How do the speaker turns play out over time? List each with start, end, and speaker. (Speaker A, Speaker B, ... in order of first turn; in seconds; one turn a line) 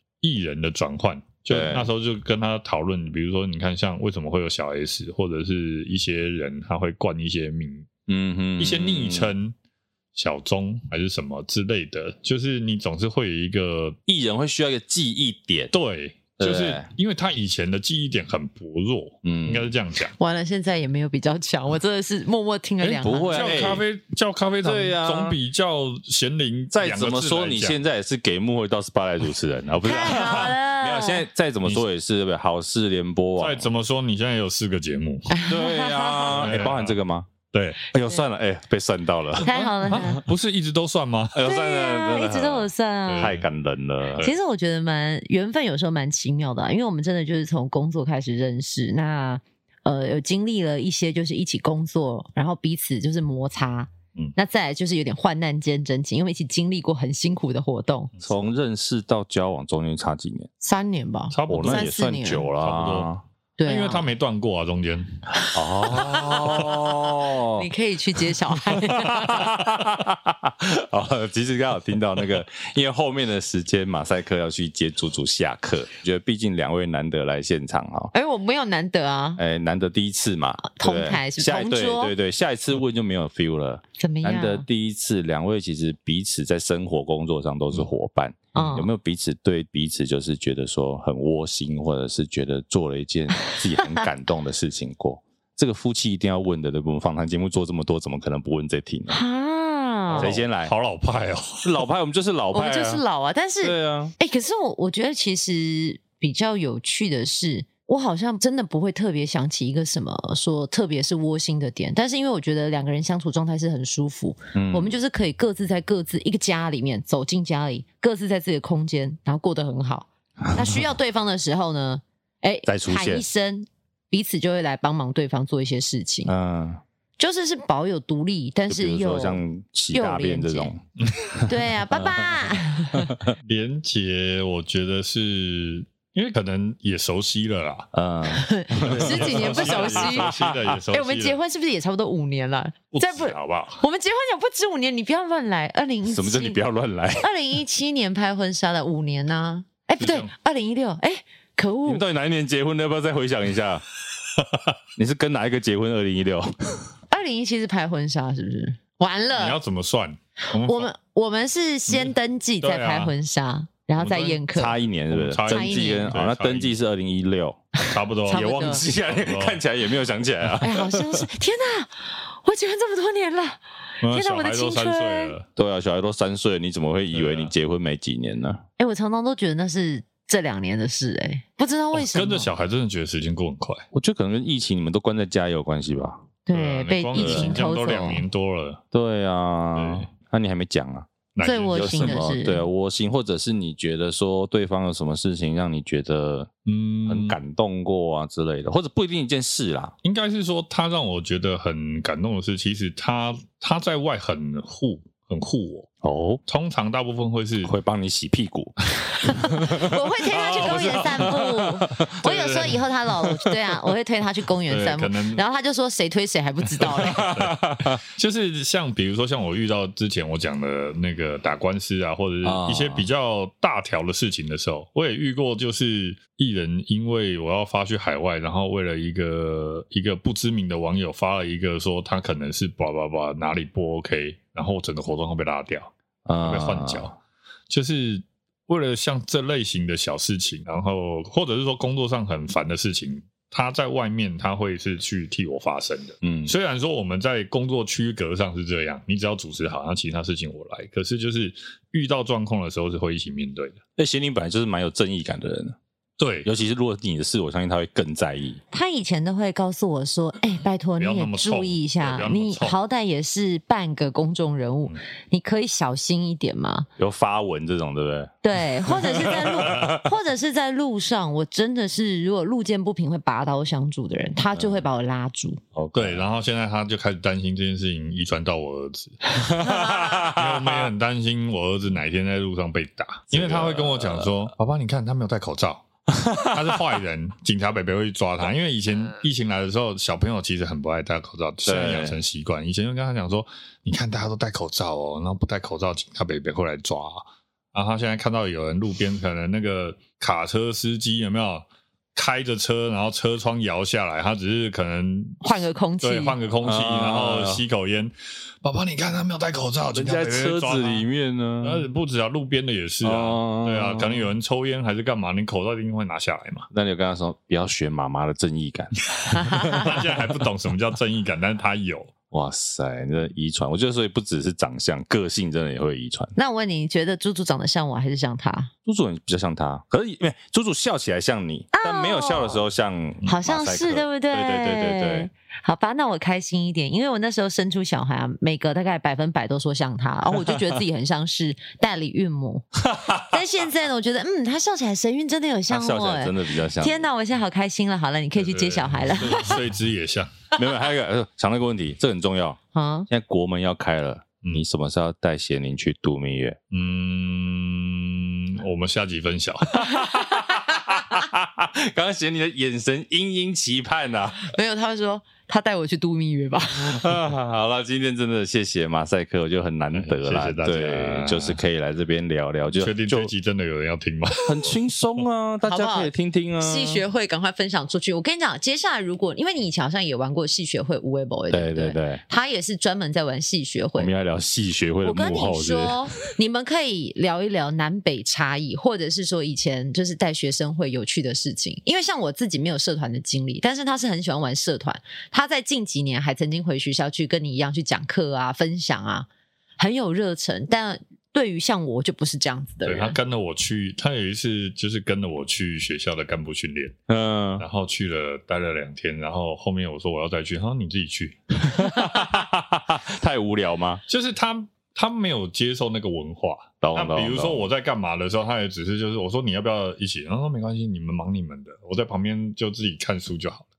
Speaker A: 0.2-7.9
Speaker B: 1.5-1.9
Speaker B: 8.1-9.3
Speaker A: 8.6-9.6
Speaker A: 10.2-14.0
Speaker B: 14.1-15.7
Speaker A: 15.7-20.1
Speaker B: 16.4-16.9
Speaker B: 19.2-19.7
Speaker C: 20.2-23.6
Speaker A: 22.8-27.8
Speaker B: 23.0-23.8
Speaker B: 24.6-25.4
Speaker B: 26.7-33.7
Speaker C: 29.8-31.2
Speaker A: 33.4-35.4
Speaker C: 35.3-36.5
Speaker B: 35.4-37.3
Speaker A: 36.3-37.0
Speaker A: 37.5-37.8
Speaker B: 37.9-40.1
Speaker C: 39.4-40.2
Speaker A: 39.5-41.4
Speaker B: 41.3-44.3
Speaker C: 41.4-43.4
Speaker A: 43.1-43.5
Speaker C: 44.2-58.1
Speaker B: 58.2-60.5
Speaker C: 60.6-62.5
Speaker A: 61.3-61.9
Speaker B: 61.5-63.2
Speaker A: 62.6-63.1
Speaker C: 63.6-64.1
Speaker A: 63.6-65.2
Speaker C: 65.4-69.6
Speaker B: 65.5-67.7
Speaker B: 68.8-78.1
Speaker C: 78.1-79.4
Speaker B: 79.4-99.2
Speaker C: 80.6-82.1
Speaker C: 84.0-84.7
Speaker C: 88.5-88.9
Speaker C: 93.5-94.0
Speaker C: 99.1-100.3
Speaker A: 100.1-101.8
Speaker B: 100.2-100.7
Speaker B: 101.7-103.0
Speaker C: 102.5-126.3
Speaker B: 103.6-104.1
Speaker B: 114.5-115.0
Speaker B: 122.7-123.2
Speaker B: 126.3-126.8
Speaker C: 127.2-129.4
Speaker B: 128.7-133.3
Speaker C: 129.9-130.7
Speaker A: 131.0-131.3
Speaker C: 131.4-133.1
Speaker A: 133.4-137.9
Speaker B: 137.9-140.7
Speaker C: 138.3-146.6
Speaker A: 138.7-141.4
Speaker A: 142.9-143.8
Speaker B: 146.1-147.2
Speaker C: 147.2-152.0
Speaker A: 150.0-150.3
Speaker B: 151.9-153.8
Speaker B: 155.0-156.8
Speaker C: 157.1-159.6
Speaker A: 159.3-160.9
Speaker C: 160.5-164.8
Speaker A: 161.9-163.1
Speaker A: 164.0-164.4
Speaker B: 164.5-167.6
Speaker A: 165.1-166.8
Speaker C: 165.5-166.1
Speaker C: 167.8-168.8
Speaker A: 167.9-169.6
Speaker B: 168.3-171.2
Speaker C: 170.6-175.3
Speaker A: 174.0-175.5
Speaker B: 175.6-178.6
Speaker A: 177.1-177.5
Speaker C: 178.8-182.5
Speaker A: 181.9-183.8
Speaker B: 183.9-186.3
Speaker C: 186.5-188.2
Speaker A: 186.5-188.8
Speaker B: 187.1-187.6
Speaker B: 188.9-191.1
Speaker A: 189.8-190.1
Speaker A: 191.3-192.3
Speaker C: 191.4-192.6
Speaker B: 191.7-196.5
Speaker A: 196.7-197.4
Speaker B: 197.1-199.9
Speaker A: 200.0-205.9
Speaker B: 206.0-206.4
Speaker A: 206.5-207.8
Speaker B: 207.6-213.6
Speaker C: 209.2-217.4
Speaker A: 212.1-212.9
Speaker A: 214.7-215.4
Speaker A: 216.8-237.2
Speaker B: 216.8-218.0
Speaker B: 222.4-223.1
Speaker B: 236.2-237.1
Speaker A: 237.7-253.8
Speaker B: 246.2-246.5
Speaker B: 254.0-255.8
Speaker A: 256.2-256.5
Speaker B: 256.4-258.6
Speaker C: 258.7-266.9
Speaker A: 261.0-262.8
Speaker B: 267.0-270.1
Speaker C: 268.4-275.6
Speaker B: 275.7-276.2
Speaker A: 275.9-279.4
Speaker B: 279.5-280.8
Speaker C: 279.6-280.3
Speaker A: 280.2-285.9
Speaker B: 283.3-284.5
Speaker B: 286.1-286.8
Speaker A: 286.4-311.1
Speaker B: 291.6-292.2
Speaker C: 305.4-306.4
Speaker B: 306.6-307.6
Speaker B: 309.9-311.9
Speaker A: 311.6-316.7
Speaker B: 313.0-314.3
Speaker B: 316.7-320.1
Speaker C: 319.3-320.0
Speaker A: 319.7-322.1
Speaker B: 322.3-326.4
Speaker C: 326.4-328.7
Speaker B: 328.9-335.3
Speaker C: 331.7-332.6
Speaker C: 333.2-349.6
Speaker B: 342.9-343.4
Speaker B: 345.7-347.1
Speaker A: 348.4-350.3
Speaker B: 350.6-356.6
Speaker C: 352.7-353.1
Speaker A: 356.7-359.9
Speaker B: 359.7-364.5
Speaker C: 359.9-360.7
Speaker C: 364.4-367.1
Speaker B: 366.8-373.3
Speaker A: 369.9-371.6
Speaker A: 372.8-375.2
Speaker B: 374.5-377.0
Speaker C: 375.6-384.1
Speaker B: 381.5-382.2
Speaker B: 384.0-386.0
Speaker C: 385.0-399.3
Speaker C: 399.8-403.2
Speaker A: 402.9-406.9
Speaker B: 407.1-407.7
Speaker A: 407.6-411.7
Speaker B: 411.7-414.0
Speaker A: 414.1-423.7
Speaker B: 416.8-417.7